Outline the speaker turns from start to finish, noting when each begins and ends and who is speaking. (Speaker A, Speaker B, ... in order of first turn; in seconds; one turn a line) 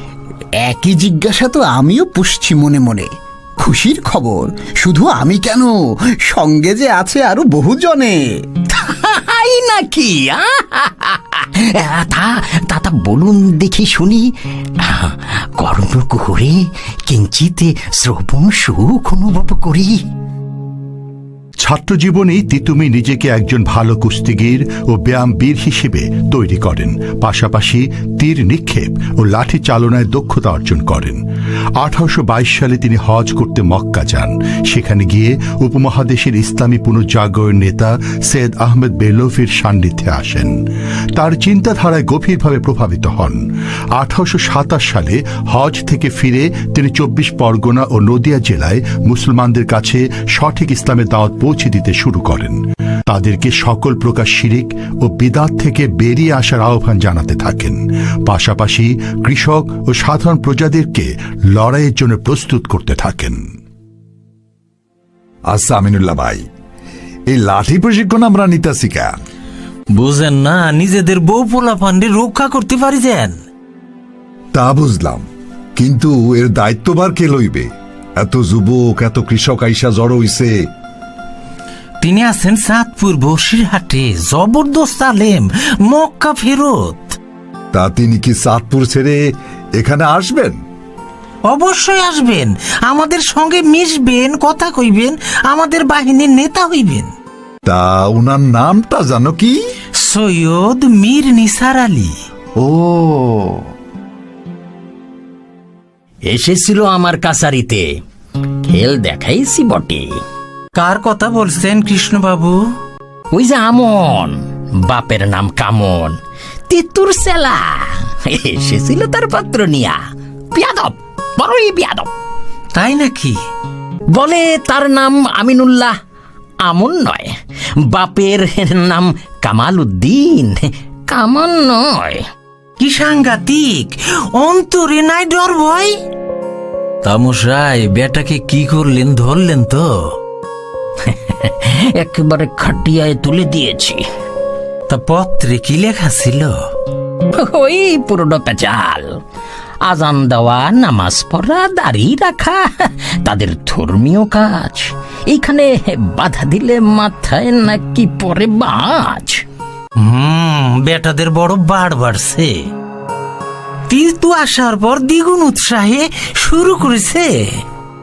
Speaker A: 0.6-8.2
Speaker B: 8.7-14.3
Speaker B: 14.8-20.0
Speaker C: 21.6-31.2
Speaker C: 31.8-40.5
Speaker C: 41.1-43.4
Speaker C: 44.0-63.4
Speaker D: 65.5-66.4
Speaker D: 67.3-69.2
Speaker E: 69.9-73.4
Speaker D: 74.5-80.7
Speaker E: 82.0-87.2
Speaker D: 87.7-89.2
Speaker D: 89.8-90.6
Speaker E: 91.5-97.1
Speaker D: 97.7-99.6
Speaker E: 100.0-102.2
Speaker D: 102.6-103.6
Speaker B: 106.3-107.9
Speaker B: 108.7-110.1
Speaker E: 110.8-112.6
Speaker B: 113.3-116.2
Speaker B: 116.7-120.0
Speaker B: 120.5-122.1
Speaker E: 122.7-123.4
Speaker B: 124.1-125.9
Speaker B: 126.7-132.2
Speaker E: 132.8-135.9
Speaker E: 137.0-139.9
Speaker B: 141.1-144.0
Speaker E: 144.9-146.6
Speaker B: 147.3-149.1
Speaker B: 149.8-159.4
Speaker E: 160.0-162.6
Speaker E: 163.9-167.4